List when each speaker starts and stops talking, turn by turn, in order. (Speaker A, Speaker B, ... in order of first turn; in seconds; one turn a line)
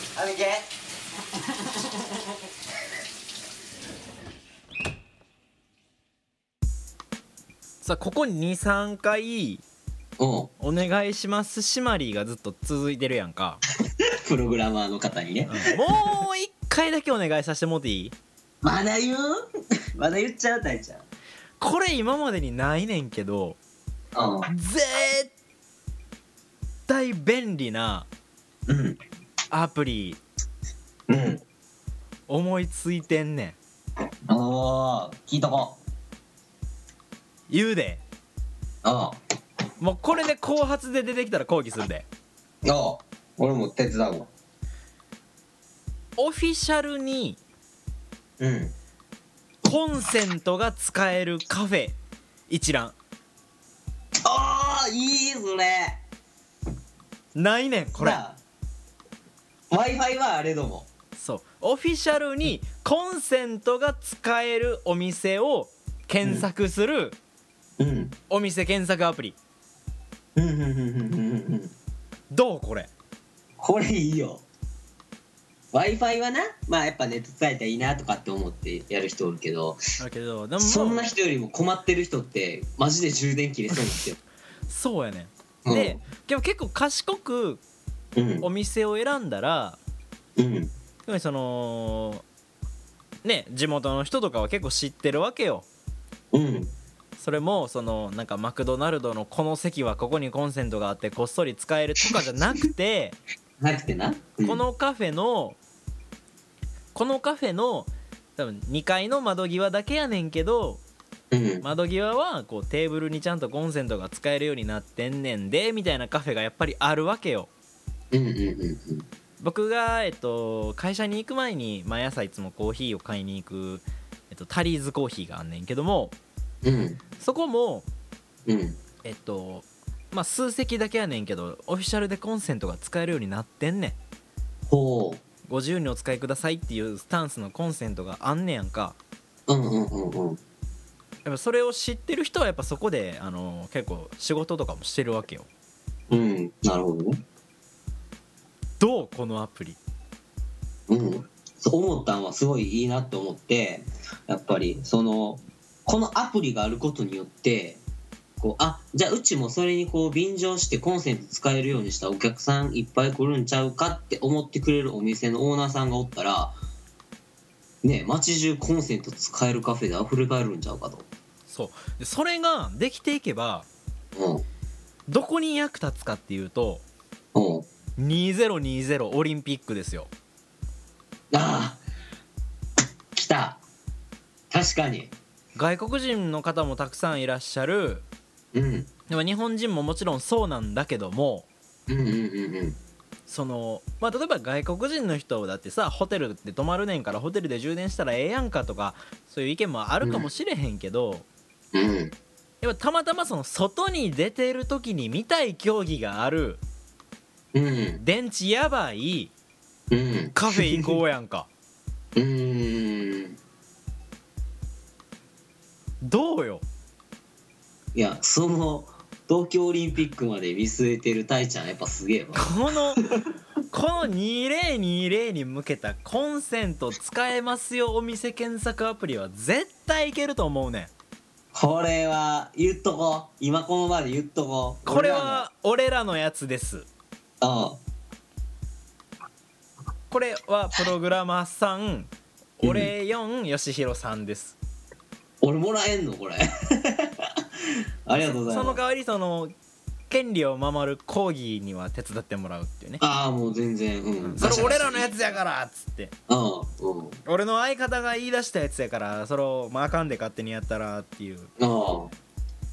Speaker A: 0.2-0.6
Speaker B: 7.8-9.6
Speaker A: 10.2-10.5
Speaker B: 10.6-13.6
Speaker A: 14.2-15.7
Speaker B: 15.5-18.2
Speaker A: 18.6-19.4
Speaker A: 20.0-21.1
Speaker B: 21.6-23.6
Speaker A: 24.1-24.5
Speaker B: 24.5-25.3
Speaker B: 26.9-28.1
Speaker A: 28.7-29.0
Speaker B: 29.5-30.2
Speaker A: 31.1-31.4
Speaker B: 32.3-33.6
Speaker A: 34.3-35.8
Speaker B: 37.5-38.0
Speaker A: 38.8-39.2
Speaker B: 39.8-42.1
Speaker A: 42.6-44.3
Speaker B: 46.2-47.4
Speaker A: 48.4-48.7
Speaker B: 49.6-52.0
Speaker B: 52.5-53.0
Speaker A: 54.2-56.0
Speaker B: 57.4-58.2
Speaker A: 57.9-58.4
Speaker A: 59.7-60.9
Speaker B: 61.2-67.2
Speaker A: 67.8-68.2
Speaker B: 68.3-69.4
Speaker A: 70.4-71.7
Speaker B: 72.3-72.9
Speaker A: 73.6-74.5
Speaker A: 75.7-79.8
Speaker B: 80.0-81.1
Speaker A: 80.6-84.2
Speaker B: 84.7-87.6
Speaker A: 85.7-86.0
Speaker A: 88.2-88.5
Speaker B: 88.4-89.8
Speaker A: 90.4-90.7
Speaker B: 91.1-92.2
Speaker B: 93.2-95.7
Speaker A: 96.3-96.7
Speaker B: 97.2-103.2
Speaker A: 103.6-104.6
Speaker B: 104.5-105.6
Speaker B: 106.9-110.8
Speaker A: 111.3-111.7
Speaker B: 111.6-117.5
Speaker A: 118.1-119.1
Speaker B: 119.4-126.2
Speaker A: 126.6-127.0
Speaker B: 127.2-127.9
Speaker A: 128.5-128.8
Speaker B: 129.0-134.0
Speaker A: 134.7-135.2
Speaker B: 135.5-139.0
Speaker A: 139.5-140.4
Speaker B: 141.2-145.5
Speaker A: 146.1-147.2
Speaker B: 148.8-149.8
Speaker A: 150.9-157.8
Speaker A: 158.4-166.6
Speaker A: 167.8-171.1
Speaker B: 171.5-173.7
Speaker A: 174.2-174.4
Speaker B: 175.1-176.8
Speaker A: 177.3-177.7
Speaker B: 178.0-180.1
Speaker A: 181.3-181.8
Speaker A: 183.1-183.6
Speaker A: 184.5-185.1
Speaker B: 185.6-188.1
Speaker A: 188.5-188.9
Speaker B: 189.1-191.5
Speaker A: 191.9-192.8
Speaker B: 193.3-201.3
Speaker A: 200.0-200.3
Speaker A: 201.7-202.2
Speaker B: 202.6-206.6
Speaker A: 207.5-208.0
Speaker B: 208.0-209.3
Speaker A: 209.9-211.0
Speaker B: 210.3-211.5
Speaker A: 212.2-213.4
Speaker B: 216.0-216.7
Speaker A: 217.9-223.0
Speaker B: 222.3-223.0
Speaker B: 223.7-230.9
Speaker A: 231.5-235.5
Speaker B: 234.9-236.9
Speaker A: 237.4-237.8
Speaker B: 240.1-244.6
Speaker A: 242.6-242.9
Speaker A: 245.4-247.4
Speaker A: 248.1-248.8
Speaker B: 248.5-249.5
Speaker B: 250.1-253.0
Speaker A: 253.0-255.4
Speaker B: 254.2-256.1
Speaker A: 256.3-257.2
Speaker B: 257.2-261.5
Speaker A: 261.6-262.1